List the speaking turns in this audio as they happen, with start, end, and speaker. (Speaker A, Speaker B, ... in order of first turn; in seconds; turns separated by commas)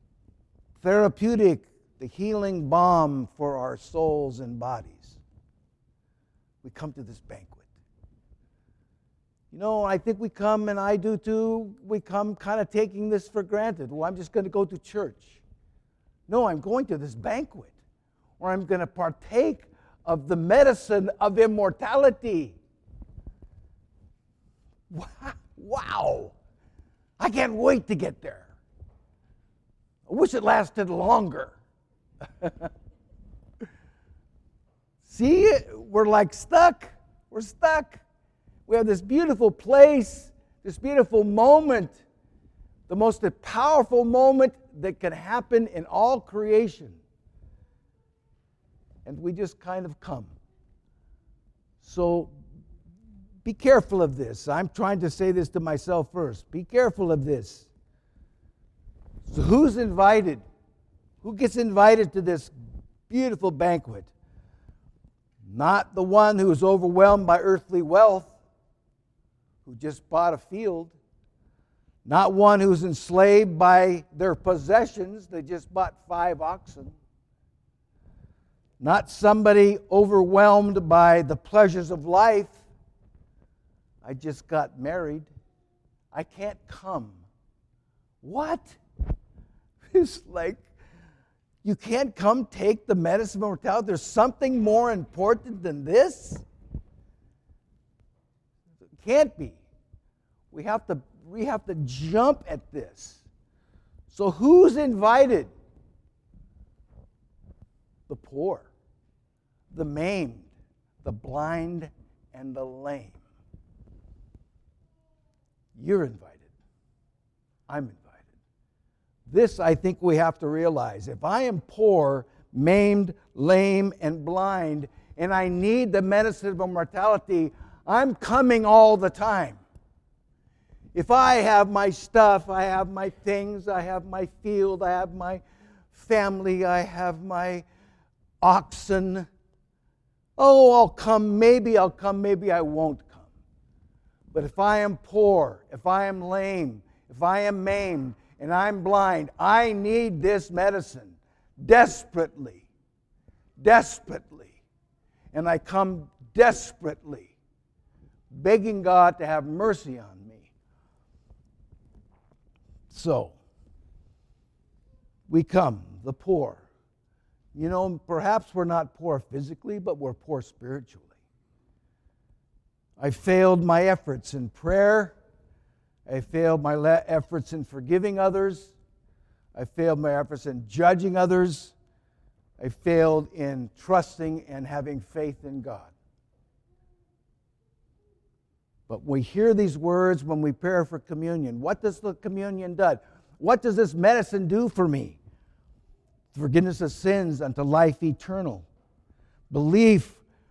Speaker A: 0.8-5.2, Speaker A: 6.6-7.7, Speaker A: 9.5-15.4, Speaker A: 16.3-17.7, Speaker A: 18.4-22.6, Speaker A: 24.9-26.3, Speaker A: 27.2-28.5, Speaker A: 30.1-31.6, Speaker A: 35.0-38.0, Speaker A: 38.7-42.0, Speaker A: 42.9-47.0, Speaker A: 49.0-50.3, Speaker A: 51.8-52.3, Speaker A: 53.4-57.7, Speaker A: 59.3-60.4, Speaker A: 61.2-62.5, Speaker A: 63.1-64.1, Speaker A: 65.4-68.3, Speaker A: 69.6-70.9, Speaker A: 72.0-76.9, Speaker A: 78.8-82.6, Speaker A: 84.0-85.3, Speaker A: 86.1-87.2, Speaker A: 88.2-88.8, Speaker A: 89.9-90.6, Speaker A: 91.6-96.4, Speaker A: 99.0-99.6, Speaker A: 100.5-103.2, Speaker A: 104.1-105.5, Speaker A: 108.1-108.7, Speaker A: 109.7-110.5, Speaker A: 111.0-113.2, Speaker A: 115.8-116.5, Speaker A: 117.7-118.2, Speaker A: 119.3-129.6, Speaker A: 130.9-137.7, Speaker A: 138.4-139.3, Speaker A: 140.4-143.3, Speaker A: 144.3-152.7, Speaker A: 153.6-154.6, Speaker A: 155.3-157.3, Speaker A: 158.3-160.5, Speaker A: 162.9-163.3, Speaker A: 165.3-166.6, Speaker A: 167.5-171.1, Speaker A: 173.0-175.1, Speaker A: 176.1-178.7, Speaker A: 179.5-181.7, Speaker A: 182.6-185.9, Speaker A: 188.9-195.2, Speaker A: 196.3-198.7, Speaker A: 199.5-200.2